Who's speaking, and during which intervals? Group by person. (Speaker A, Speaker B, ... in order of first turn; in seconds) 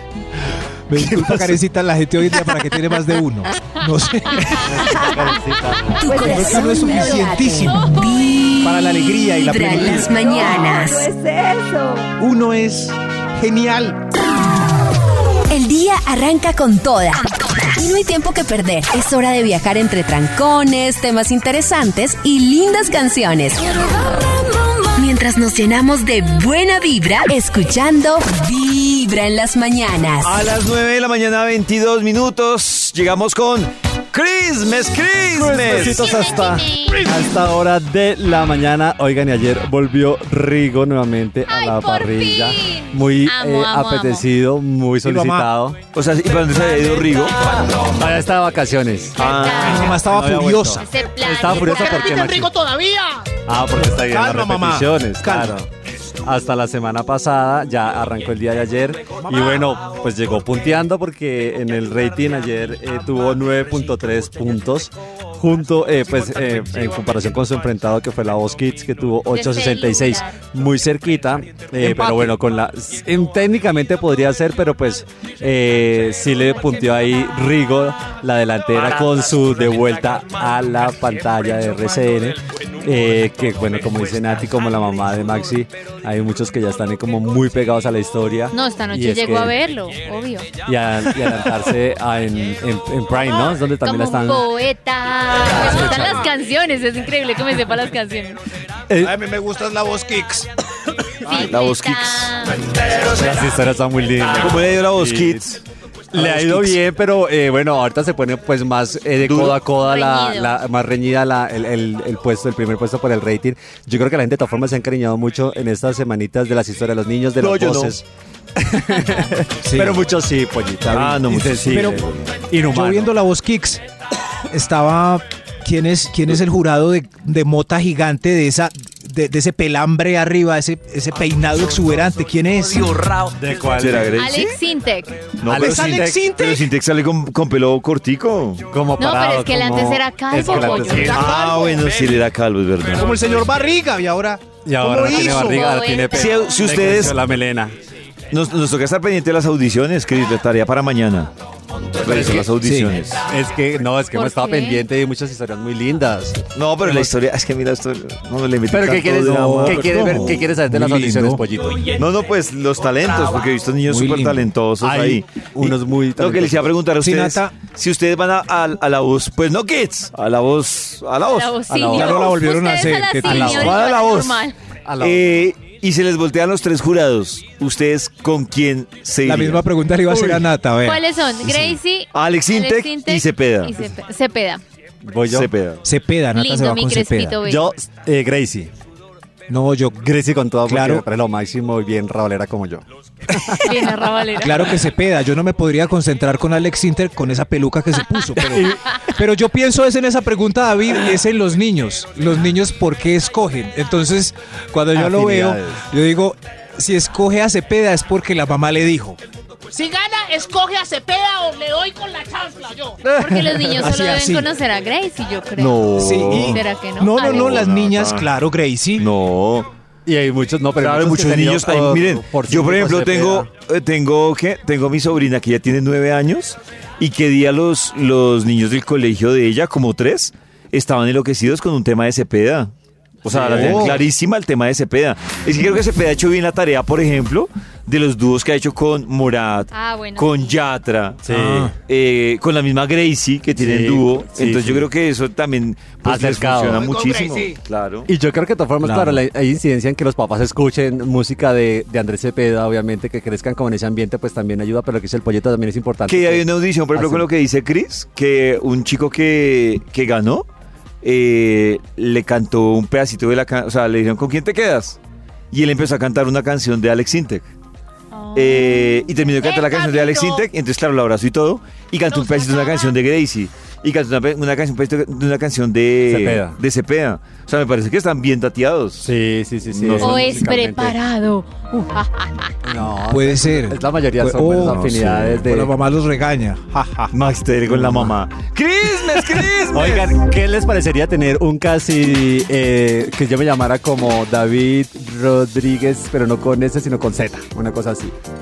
Speaker A: 0.9-5.2, 6.2-7.9, 8.6-10.1, 12.2-14.0, 45.0-45.5, 49.7-50.8, 53.9-55.6, 59.3-59.6, 99.0-100.4, 119.6-120.1, 121.7-122.0, 122.5-123.8, 124.5-133.0, 135.5-136.7, 141.0-141.6, 143.0-145.7, 152.5-153.0, 159.2-161.4, 163.8-164.5, 167.0-167.6, 171.9-173.8, 179.2-181.0, 185.8-187.4, 189.5-191.1, 194.4-209.2, 213.8-214.5, 215.9-219.1, 233.3-234.0, 241.3-241.7, 248.8-249.2, 283.1-284.9, 285.4-287.1
Speaker B: 1.0-1.6, 4.7-6.0, 35.3-45.8, 47.9-49.2, 50.0-52.5, 53.4-55.7, 56.2-89.6, 90.6-94.5, 95.5-96.3, 98.9-99.2, 103.0-105.5, 106.1-118.0, 118.5-123.2, 133.1-134.2, 135.5-136.2, 138.7-141.3, 144.6-147.7, 152.0-152.6, 153.3-157.0, 158.7-162.0, 164.8-166.7, 171.7-172.4, 173.2-173.8, 174.8-175.4, 180.1-180.5, 185.0-185.5, 187.4-188.7, 190.0-193.7, 198.4-198.8, 204.9-205.9, 213.0-213.8, 215.6-216.5, 220.1-223.5, 233.3-234.0, 241.2-241.7, 243.6-244.9, 246.0-246.9, 248.1-257.3, 276.1-276.6, 279.0-281.0, 282.6-285.7, 287.7-288.1, 289.7-298.1
Speaker C: 4.9-5.1, 6.0-7.3, 10.0-12.1
Speaker D: 6.0-11.1, 15.5-24.2, 24.9-30.4
Speaker E: 30.2-36.1, 45.9-47.5, 49.1-49.9, 101.3-102.4, 104.2-105.6, 106.1-106.8, 109.2-109.6, 117.4-118.0, 120.9-122.4, 133.7-134.6, 135.4-138.7, 141.1-143.4, 146.1-147.2, 148.3-151.3, 152.0-153.3, 156.5-160.4, 161.9-171.6, 173.2-174.4, 175.0-179.7, 182.1-183.7, 185.3-185.8, 216.3-216.6, 217.2-218.3, 219.0-219.7, 220.8-232.7, 233.2-248.1, 256.1-260.4, 261.0-265.0, 265.5-267.5, 268.3-279.1, 279.7-280.4, 284.5-285.5, 287.1-290.2
Speaker F: 35.7-37.0, 41.5-44.2, 49.2-50.0, 50.8-52.3, 69.3-70.4, 88.5-90.7, 93.2-98.4, 101.2-102.6, 109.8-110.6, 134.1-135.2, 139.0-141.2, 145.1-146.7, 154.1-154.8, 171.3-174.6, 180.8-184.6, 186.3-187.7, 193.6-194.8, 213.2-215.9, 216.4-217.7, 239.7-240.6, 268.1-269.1, 272.1-272.6, 280.0-282.6
Speaker G: 51.6-53.3, 209.7-213.0, 246.8-247.6, 269.4-270.4, 272.5-272.9